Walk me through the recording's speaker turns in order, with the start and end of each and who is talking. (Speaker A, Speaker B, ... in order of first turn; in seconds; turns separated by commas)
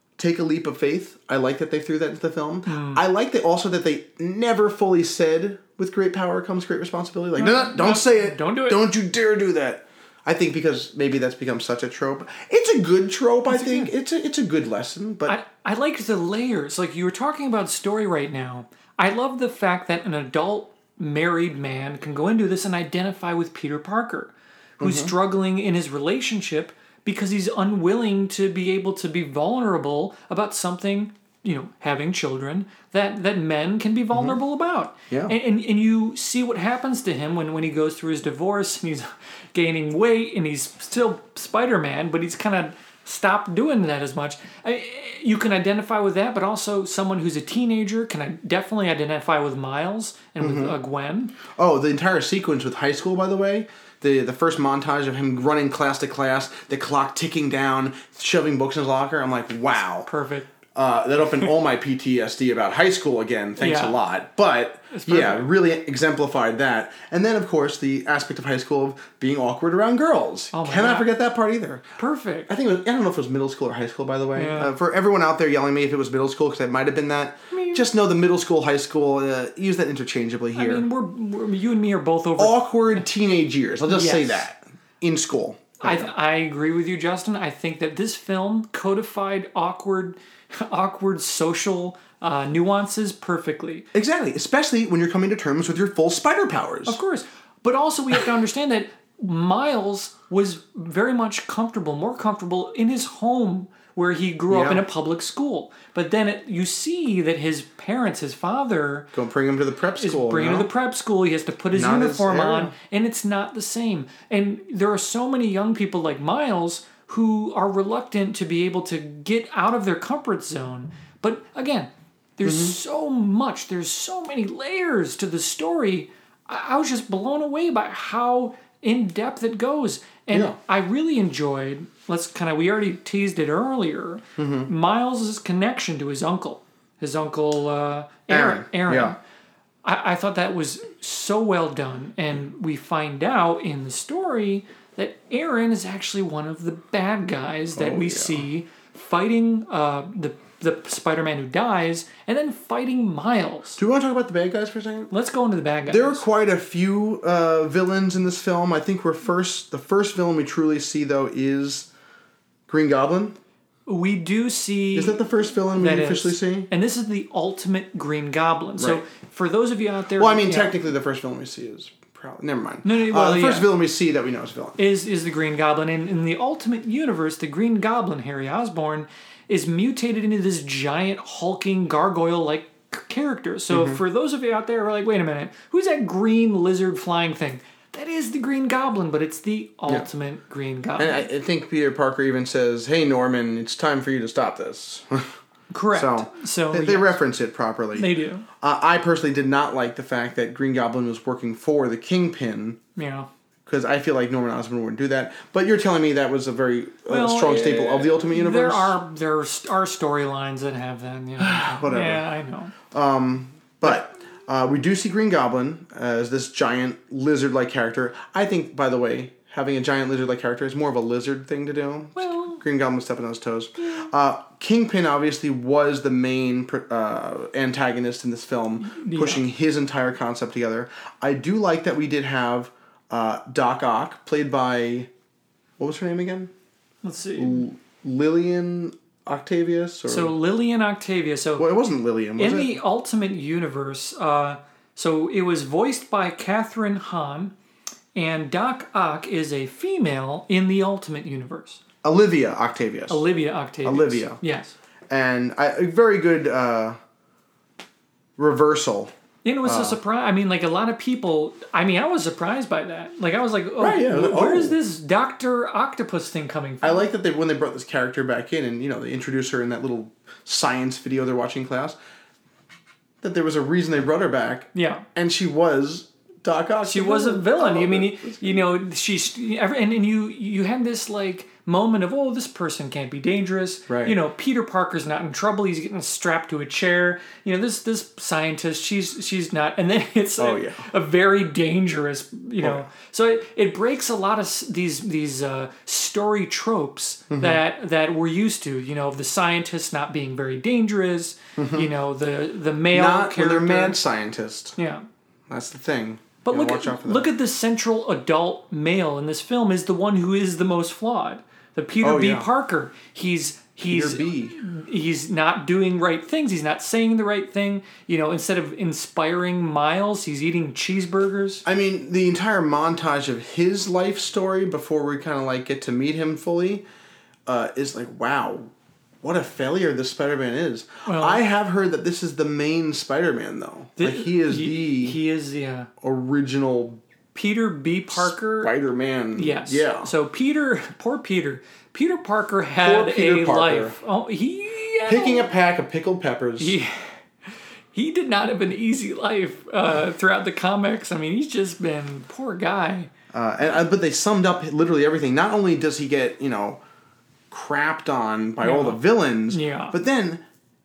Speaker A: 0.2-15.3, Speaker B: 2.6-3.0, Speaker B: 7.4-8.8, Speaker B: 13.5-13.9, Speaker B: 15.3-51.3, Speaker A: 24.8-25.1, Speaker A: 34.1-34.4, Speaker A: 50.4-50.8, Speaker A: 51.5-60.1, Speaker B: 60.0-60.5, Speaker A: 60.7-71.8, Speaker B: 63.6-64.0, Speaker B: 64.9-65.5, Speaker B: 70.5-71.1, Speaker B: 72.0-72.5, Speaker A: 72.5-80.8, Speaker B: 74.3-74.7, Speaker B: 77.5-77.8, Speaker B: 80.5-82.6, Speaker A: 82.4-86.1, Speaker B: 83.9-84.5, Speaker B: 85.8-93.9, Speaker A: 93.9-97.0, Speaker B: 96.8-109.1, Speaker A: 104.5-104.8, Speaker A: 109.1-110.7, Speaker B: 110.0-139.2, Speaker A: 111.7-112.7, Speaker A: 122.4-122.8, Speaker A: 130.3-130.6, Speaker A: 134.4-134.7, Speaker A: 138.3-139.2, Speaker B: 139.8-153.8, Speaker A: 147.7-148.4, Speaker A: 153.8-155.1, Speaker B: 155.1-156.2, Speaker A: 155.9-161.9, Speaker A: 162.7-163.3, Speaker B: 163.9-170.7, Speaker A: 164.9-166.7, Speaker A: 168.8-169.0, Speaker A: 170.2-174.8, Speaker B: 172.8-173.7, Speaker B: 174.8-191.3, Speaker A: 183.7-184.0, Speaker A: 191.0-195.3, Speaker B: 195.7-197.2, Speaker A: 195.9-202.8, Speaker B: 197.9-198.4, Speaker B: 202.9-203.3, Speaker A: 203.7-209.0, Speaker B: 207.1-212.7, Speaker A: 211.4-212.3, Speaker A: 212.9-235.1, Speaker B: 222.2-222.6, Speaker B: 228.8-229.4, Speaker A: 235.8-236.5, Speaker B: 237.0-237.7, Speaker A: 237.4-240.3, Speaker B: 240.1-241.7, Speaker A: 241.6-242.8, Speaker B: 242.4-247.5, Speaker B: 248.1-251.8, Speaker A: 252.0-253.2, Speaker B: 253.1-254.7, Speaker A: 253.8-254.4, Speaker A: 255.1-257.0, Speaker A: 258.4-259.1, Speaker B: 259.4-267.0, Speaker A: 259.6-260.0, Speaker A: 263.8-264.8, Speaker A: 266.8-272.0, Speaker A: 273.2-278.7, Speaker B: 274.7-275.0, Speaker B: 276.8-304.0, Speaker A: 283.9-284.2, Speaker A: 290.4-290.9, Speaker A: 292.6-292.9, Speaker A: 297.3-297.6, Speaker A: 301.6-301.9, Speaker A: 302.9-304.8, Speaker B: 304.8-305.0, Speaker A: 305.5-307.3, Speaker B: 306.4-321.6, Speaker A: 312.0-312.5, Speaker A: 313.8-314.6, Speaker A: 321.6-326.8, Speaker A: 327.4-328.7, Speaker A: 329.2-335.2, Speaker B: 331.1-331.4, Speaker B: 334.0-335.9, Speaker A: 336.0-337.0, Speaker B: 337.3-338.7, Speaker A: 338.1-340.1, Speaker B: 339.3-345.5, Speaker A: 342.8-343.9, Speaker A: 345.1-346.8, Speaker B: 346.6-347.2, Speaker B: 347.9-353.1, Speaker A: 353.3-356.8, Speaker A: 357.5-360.4, Speaker B: 358.6-360.0